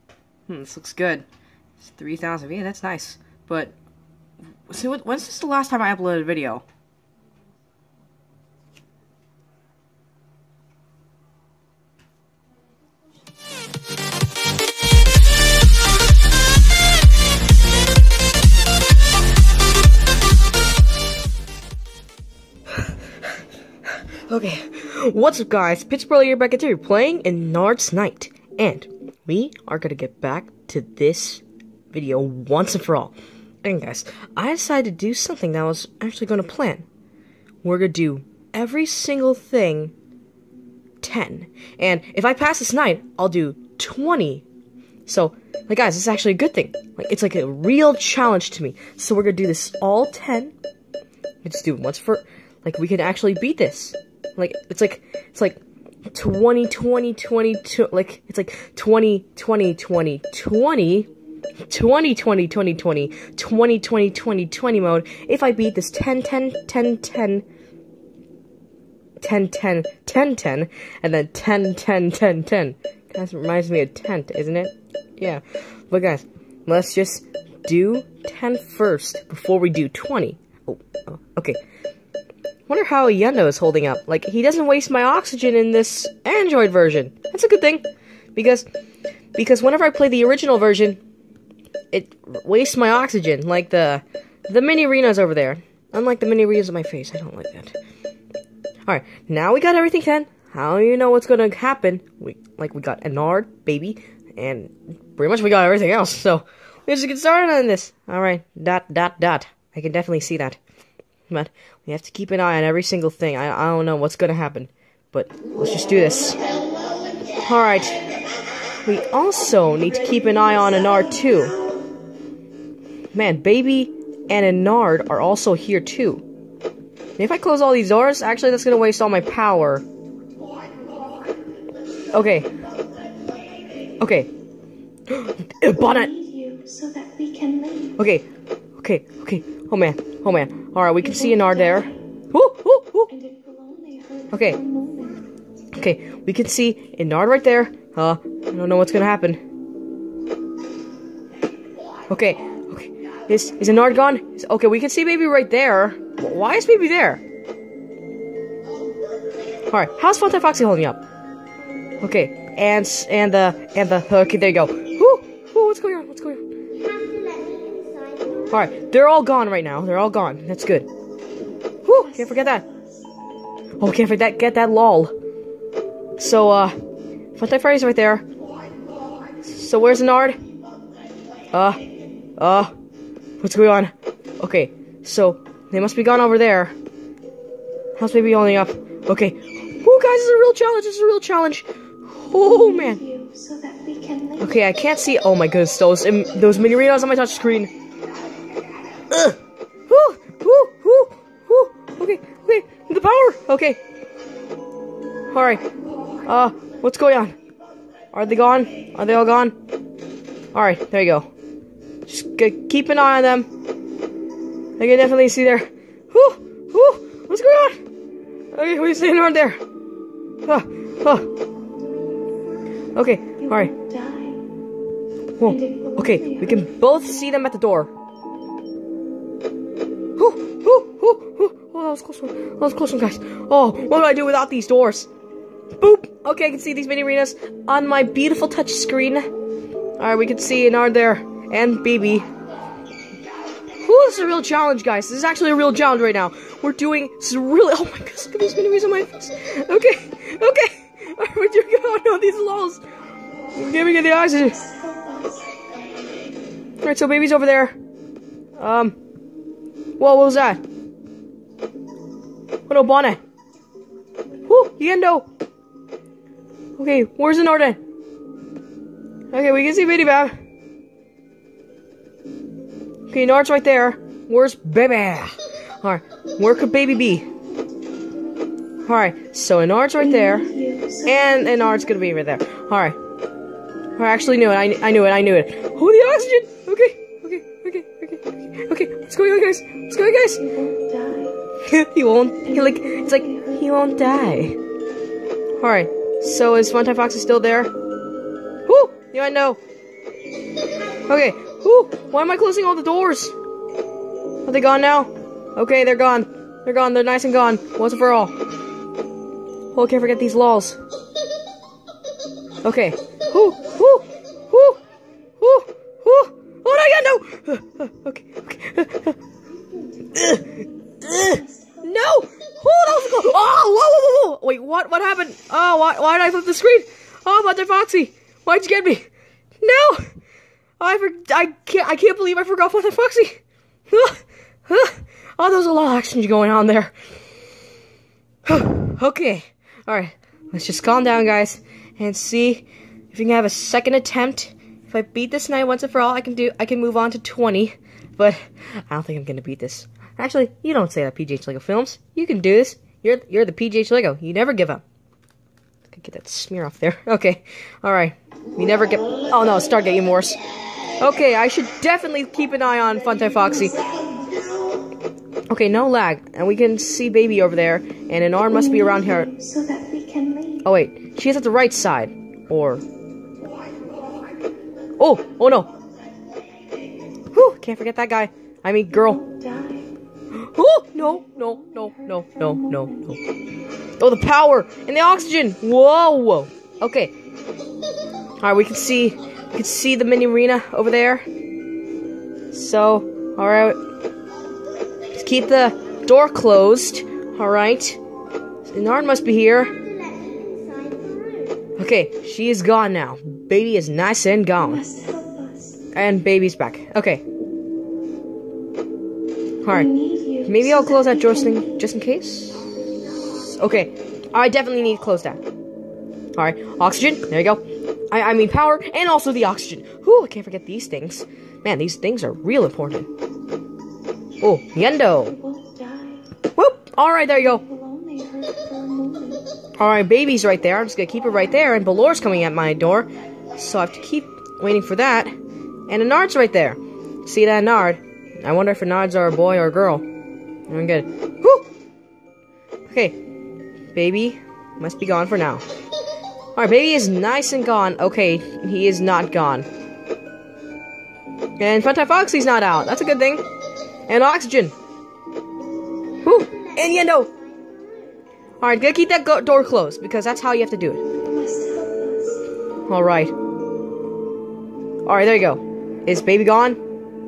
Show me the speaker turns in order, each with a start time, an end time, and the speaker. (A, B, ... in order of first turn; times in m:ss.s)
0:00.5-0:01.3 A
0:01.8-0:03.8 A
0:04.7-0:06.7 A
0:24.1-0:36.9 A
0:37.6-0:39.9 A
0:41.0-0:44.4 A
0:45.1-0:50.5 A
0:51.4-1:01.1 A
1:01.7-1:07.5 A
1:09.2-1:21.6 A
1:22.7-1:28.7 A
1:29.4-1:31.0 A
1:31.9-1:37.8 A
1:38.9-1:50.6 A
1:51.3-1:56.4 A
1:57.4-1:58.0 A
1:58.8-2:01.6 A
2:03.1-2:06.2 A
2:07.2-2:09.8 A
2:12.1-2:12.5 A
2:14.0-2:14.3 A
2:15.1-2:16.2 A
2:16.1-2:17.9 B
2:18.0-2:23.2 A
2:23.1-2:25.2 B
2:24.3-2:24.6 A
2:25.7-2:29.4 A
2:32.1-2:37.2 A
2:39.7-2:41.0 A
2:42.0-2:46.5 A
2:47.0-2:48.3 B
2:48.5-2:50.9 A
2:51.8-2:52.6 A
2:53.8-2:55.1 A
2:56.2-2:56.7 A
2:57.4-2:58.3 A
2:59.4-3:00.4 A
3:01.5-3:01.8 A
3:02.4-3:02.7 A
3:03.4-3:06.7 A
3:08.0-3:13.1 A
3:12.8-3:14.4 B
3:14.4-3:17.7 A
3:19.1-3:23.8 A
3:25.3-3:25.6 A
3:26.2-3:27.4 A
3:28.1-3:29.6 A
3:30.5-3:31.3 A
3:32.1-3:33.5 A
3:34.8-3:37.8 A
3:38.5-3:39.6 A
3:40.5-3:41.3 A
3:43.0-3:43.8 A
3:43.7-3:44.4 B
3:45.4-3:47.9 A
3:50.2-3:55.1 A
3:55.7-3:59.3 A
4:00.0-4:02.3 A
4:03.8-4:12.8 A
4:13.5-4:14.7 A
4:14.6-4:15.5 B
4:16.8-4:17.8 A
4:18.6-4:19.0 A
4:20.0-4:20.6 A
4:22.7-4:23.2 A
4:24.5-4:25.3 A
4:26.8-4:27.8 A
4:29.3-4:30.3 A
4:33.1-4:37.3 A
4:38.8-4:43.0 A
4:40.5-4:41.0 B
4:44.0-4:50.6 A
4:50.6-4:51.3 B
4:51.6-4:54.6 A
4:55.6-4:57.7 A
4:58.7-4:59.6 A
5:01.1-5:03.4 A
5:04.5-5:08.4 A
5:09.7-5:10.8 A
5:12.6-5:14.8 A
5:15.4-5:19.2 A
5:20.1-5:29.1 A
5:29.6-5:30.1 A
5:30.8-5:36.9 A
5:38.4-5:54.8 A
5:55.9-6:00.4 A
6:01.0-6:03.9 A
6:05.5-6:09.3 A
6:08.8-6:10.6 B
6:10.6-6:12.8 A
6:15.0-6:15.7 A
6:17.3-6:19.3 A
6:19.2-6:19.9 B
6:20.3-6:23.3 A
6:24.0-6:27.1 A
6:28.4-6:31.3 A
6:32.5-6:33.8 A
6:35.1-6:38.0 A
6:38.6-6:39.8 A
6:40.1-6:41.5 B
6:41.8-6:44.9 A
6:44.8-6:45.8 B
6:45.9-6:47.2 A
6:49.6-6:52.7 A
6:49.9-6:51.6 B
6:53.2-6:55.4 A
6:56.4-7:03.1 A
7:04.4-7:05.4 A
7:05.4-7:06.2 B
7:06.5-7:07.7 A
7:07.7-7:09.5 B
7:09.8-7:15.4 A
7:15.9-7:20.1 A
7:20.7-7:21.7 A
7:22.9-7:23.2 A
7:24.0-7:25.6 A
7:26.6-7:29.7 A
7:31.6-7:33.4 A
7:34.1-7:34.7 A
7:36.2-7:37.4 A
7:37.5-7:38.1 B
7:38.6-7:41.1 A
7:41.2-7:42.4 B
7:42.9-7:43.3 A
7:45.0-7:46.8 A